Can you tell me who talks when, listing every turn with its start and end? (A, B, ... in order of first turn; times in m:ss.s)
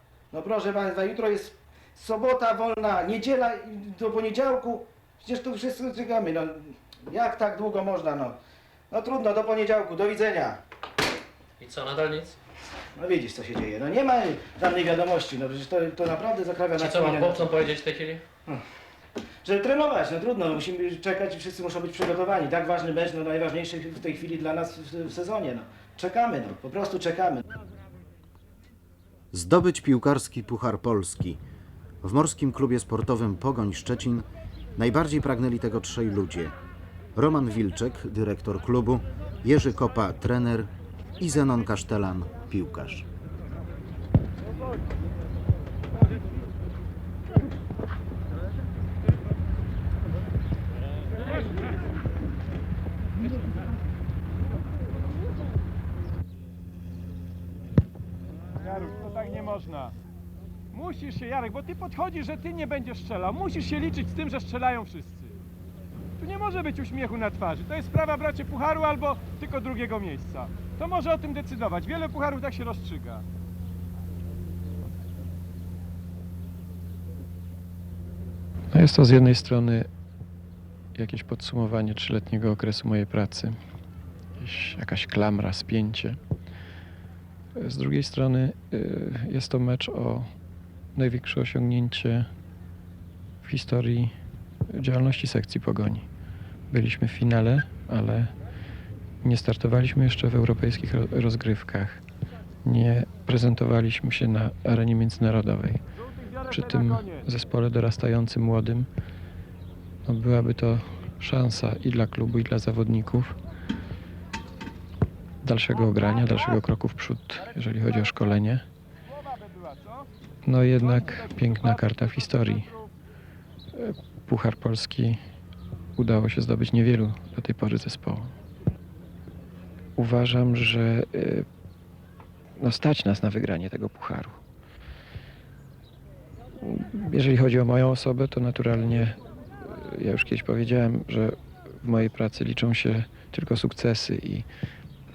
0:00.3-0:08.4 A
0:08.9-0:10.6 A
0:11.6-0:12.4 B
0:13.0-0:17.6 A
0:16.8-0:18.2 B
0:19.4-0:27.4 A
0:29.3-0:31.4 C
0:32.0-0:36.5 C
0:37.1-0:43.1 C
0:58.6-0:59.9 D
1:00.7-1:05.4 D
1:06.2-1:13.2 D
1:18.7-1:19.9 E
1:20.9-1:23.6 E
1:24.4-1:26.2 E
1:27.5-1:30.3 E
1:30.9-1:32.3 E
1:33.4-1:34.1 E
1:34.7-1:36.1 E
1:36.7-1:38.3 E
1:39.2-1:42.0 E
1:42.6-1:45.8 E
1:46.2-1:47.2 D
1:46.5-1:48.9 E
1:50.0-1:53.4 E
1:55.4-1:58.6 E
1:59.2-2:00.0 D
2:00.4-2:02.7 E
2:00.8-2:02.9 D
2:03.7-2:05.2 E
2:06.0-2:08.3 E
2:10.0-2:11.4 E
2:12.6-2:14.4 E
2:16.6-2:24.5 E